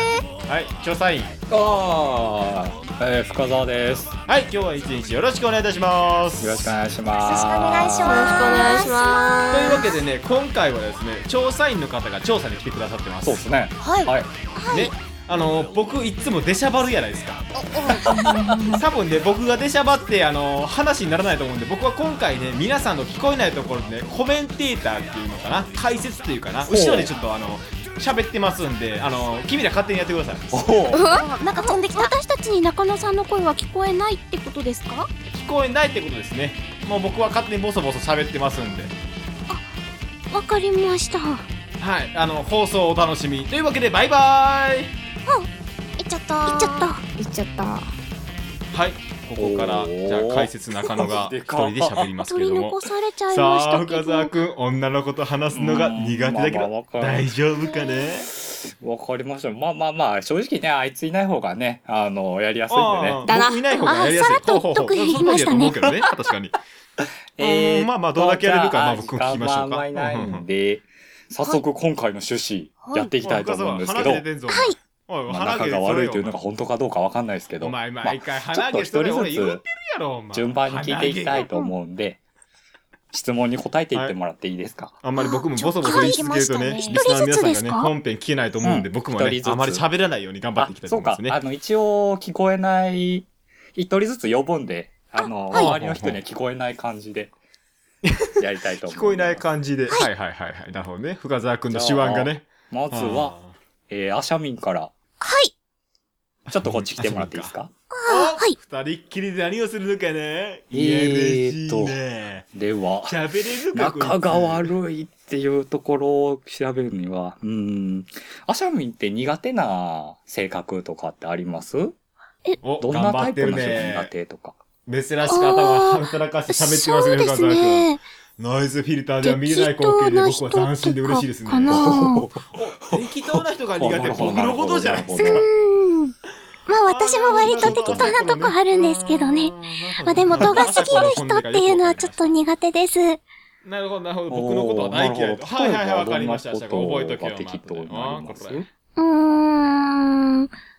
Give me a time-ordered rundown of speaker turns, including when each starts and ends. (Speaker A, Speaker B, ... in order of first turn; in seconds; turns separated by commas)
Speaker A: 0.5-1.3, Speaker B: 1.5-4.1, Speaker A: 4.3-6.7, Speaker B: 6.4-8.3, Speaker C: 7.2-9.4, Speaker D: 8.0-9.9, Speaker E: 8.1-8.9, Speaker A: 9.5-13.4, Speaker B: 13.2-14.3, Speaker E: 13.8-14.1, Speaker C: 14.6-14.9, Speaker A: 14.7-17.4, Speaker C: 17.7-18.8, Speaker E: 17.8-18.1, Speaker D: 18.1-18.6, Speaker A: 18.7-30.7, Speaker B: 26.6-27.1, Speaker B: 30.5-31.0, Speaker D: 30.9-31.2, Speaker E: 30.9-32.1, Speaker C: 31.6-35.1, Speaker A: 35.3-38.9, Speaker C: 40.3-41.4, Speaker A: 41.8-44.9, Speaker E: 46.0-46.9, Speaker C: 46.5-47.0, Speaker D: 47.2-47.9, Speaker A: 48.7-58.3, Speaker B: 49.4-52.1, Speaker C: 52.2-54.3, Speaker B: 55.5-57.3, Speaker B: 58.4-63.2, Speaker A: 62.7-66.6, Speaker D: 63.2-63.8, Speaker C: 63.8-65.9, Speaker B: 67.3-74.2, Speaker A: 67.4-70.4, Speaker E: 72.8-73.1, Speaker A: 73.2-76.3, Speaker C: 74.5-74.8, Speaker B: 75.3-79.6, Speaker A: 77.6-81.5, Speaker B: 80.3-82.2, Speaker B: 83.1-85.0, Speaker A: 85.0-91.4, Speaker C: 85.2-87.9, Speaker E: 85.8-87.0, Speaker B: 88.6-89.8, Speaker B: 90.6-97.3, Speaker C: 95.2-95.7, Speaker A: 95.5-96.2, Speaker A: 98.0-103.5, Speaker B: 98.4-99.4, Speaker B: 101.7-103.3, Speaker B: 103.9-104.9, Speaker C: 105.2-105.5, Speaker A: 106.5-107.5, Speaker B: 106.5-107.7, Speaker C: 107.9-108.6, Speaker A: 108.0-112.5, Speaker B: 110.7-112.0, Speaker B: 112.5-122.0, Speaker A: 113.0-114.7, Speaker A: 122.6-124.1, Speaker B: 122.8-124.5, Speaker A: 124.9-135.4, Speaker C: 125.3-128.0, Speaker C: 129.2-132.3, Speaker B: 131.7-135.4, Speaker C: 135.1-136.1, Speaker C: 136.7-143.2, Speaker A: 136.8-142.4, Speaker B: 137.4-138.2, Speaker B: 140.3-141.0, Speaker A: 143.6-148.7, Speaker B: 144.3-148.7, Speaker C: 149.0-150.5